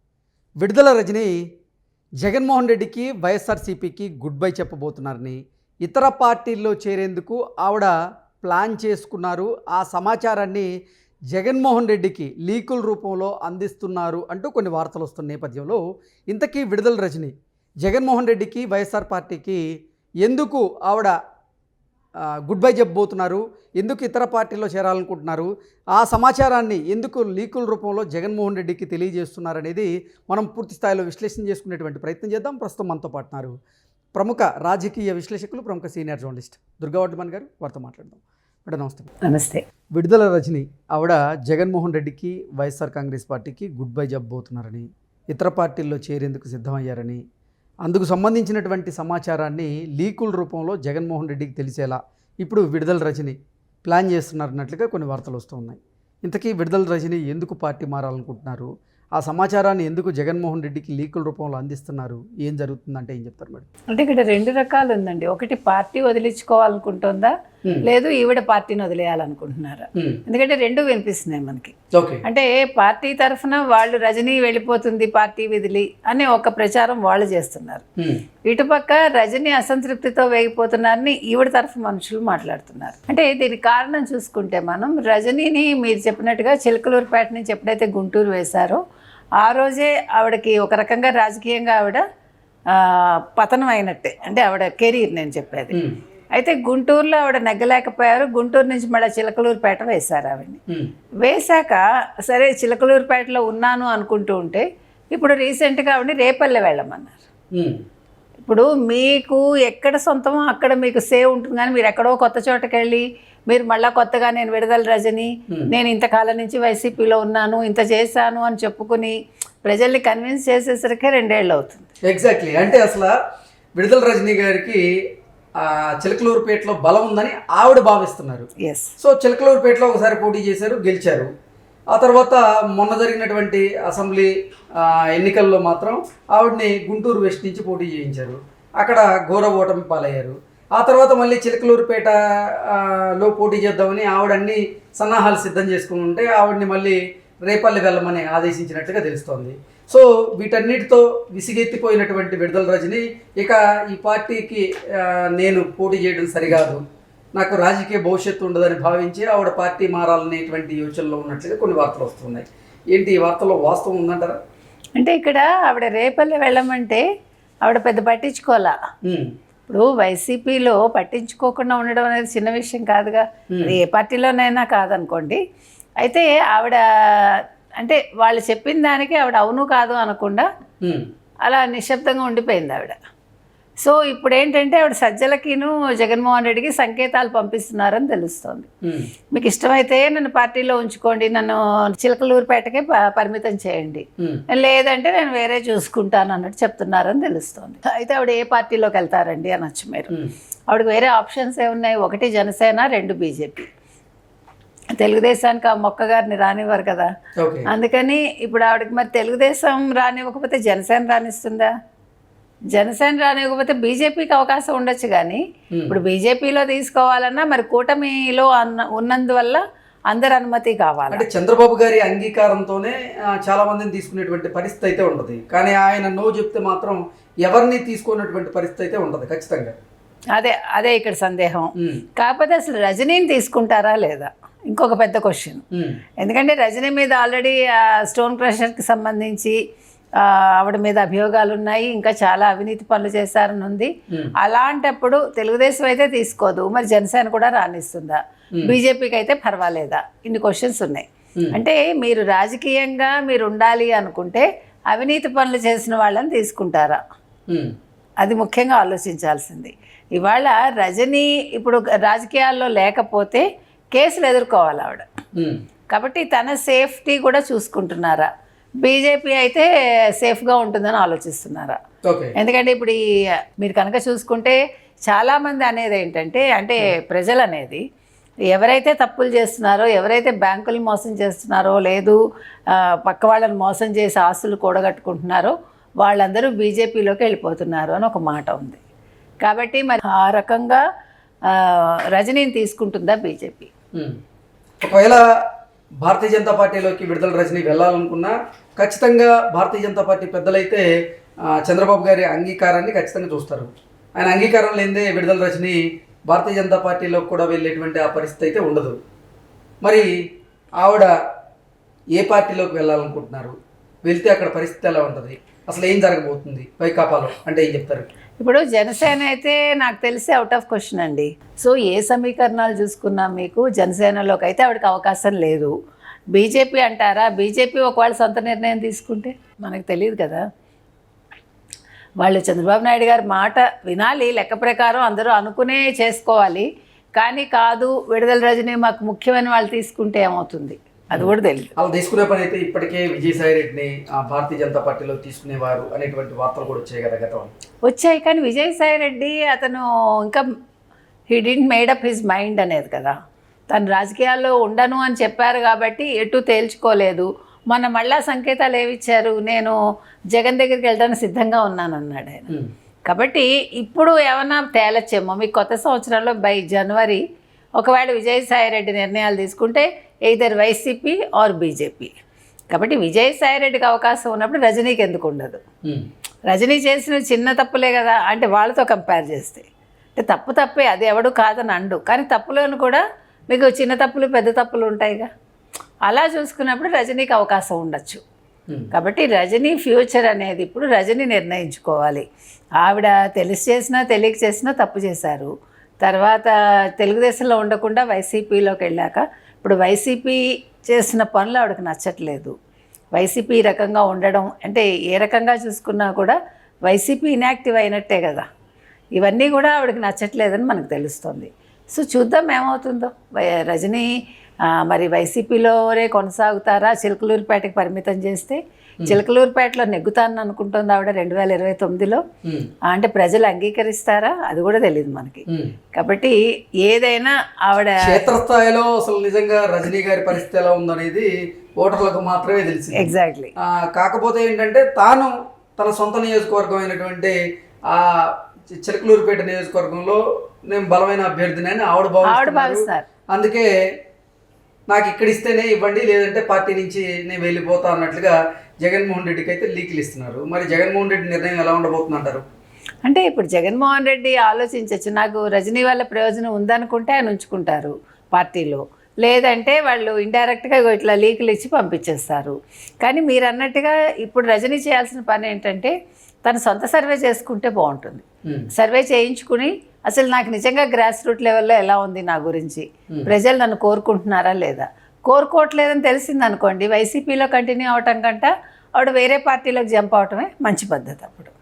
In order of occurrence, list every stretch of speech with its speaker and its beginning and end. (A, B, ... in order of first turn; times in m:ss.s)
0:00.6-0:01.4 A
0:02.2-0:10.7 A
0:11.3-0:19.6 A
0:20.2-0:21.2 A
0:22.4-0:33.5 A
0:34.2-0:39.1 A
0:39.2-0:39.6 B
0:40.0-0:47.2 A
0:47.8-1:03.7 A
1:03.9-1:07.3 B
1:07.8-1:17.8 B
1:10.0-1:10.2 A
1:11.9-1:12.2 A
1:18.5-1:28.8 B
1:29.4-1:32.0 B
1:32.7-1:35.8 B
1:36.4-1:40.6 B
1:41.2-1:47.2 B
1:47.5-1:47.8 A
1:48.4-2:01.9 B
2:02.1-2:03.2 A
2:03.8-2:04.8 A
2:05.6-2:08.5 A
2:08.6-2:08.9 B
2:09.0-2:11.3 A
2:11.9-2:36.8 A
2:37.4-2:44.4 A
2:45.0-2:47.0 B
2:47.6-2:48.8 B
2:49.7-2:55.4 B
2:53.5-2:53.8 A
2:56.0-3:00.5 B
3:01.4-3:03.0 B
3:03.8-3:08.7 B
3:08.8-3:09.1 A
3:09.3-3:20.1 B
3:20.7-3:23.7 B
3:24.9-3:27.1 B
3:27.4-3:27.7 A
3:27.7-3:31.7 B
3:32.7-3:41.2 B
3:35.7-3:36.0 A
3:41.1-3:49.8 A
3:50.4-3:55.6 B
3:51.8-3:52.0 A
3:55.7-3:56.0 A
3:56.2-3:59.6 B
4:00.2-4:17.0 B
4:18.2-4:25.1 B
4:25.9-4:28.3 B
4:28.8-4:31.8 B
4:32.0-4:32.4 A
4:32.4-4:37.8 B
4:38.5-4:48.8 B
4:49.4-4:50.8 B
4:51.5-4:53.7 B
4:54.8-4:55.2 A
4:56.0-5:00.9 A
5:01.5-5:09.0 A
5:09.8-5:10.1 A
5:10.8-5:11.1 A
5:12.2-5:18.1 A
5:18.4-5:25.7 B
5:26.3-5:30.4 B
5:32.2-5:41.7 B
5:41.1-5:47.5 A
5:47.8-5:50.4 B
5:51.3-5:53.2 B
5:53.7-5:59.8 B
6:00.3-6:02.5 B
6:03.1-6:07.2 B
6:07.8-6:12.2 B
6:12.7-6:15.6 B
6:16.5-6:25.3 B
6:26.1-6:28.2 B
6:28.9-6:32.2 B
6:32.8-6:35.5 B
6:36.0-6:42.5 B
6:43.2-6:48.4 B
6:49.2-6:54.1 B
6:54.7-7:02.2 B
7:02.4-7:02.7 A
7:02.9-7:08.3 B
7:05.5-7:05.7 A
7:08.0-7:17.4 A
7:12.9-7:13.5 B
7:17.9-7:23.7 A
7:22.2-7:23.1 B
7:24.9-7:32.4 A
7:33.0-8:01.5 B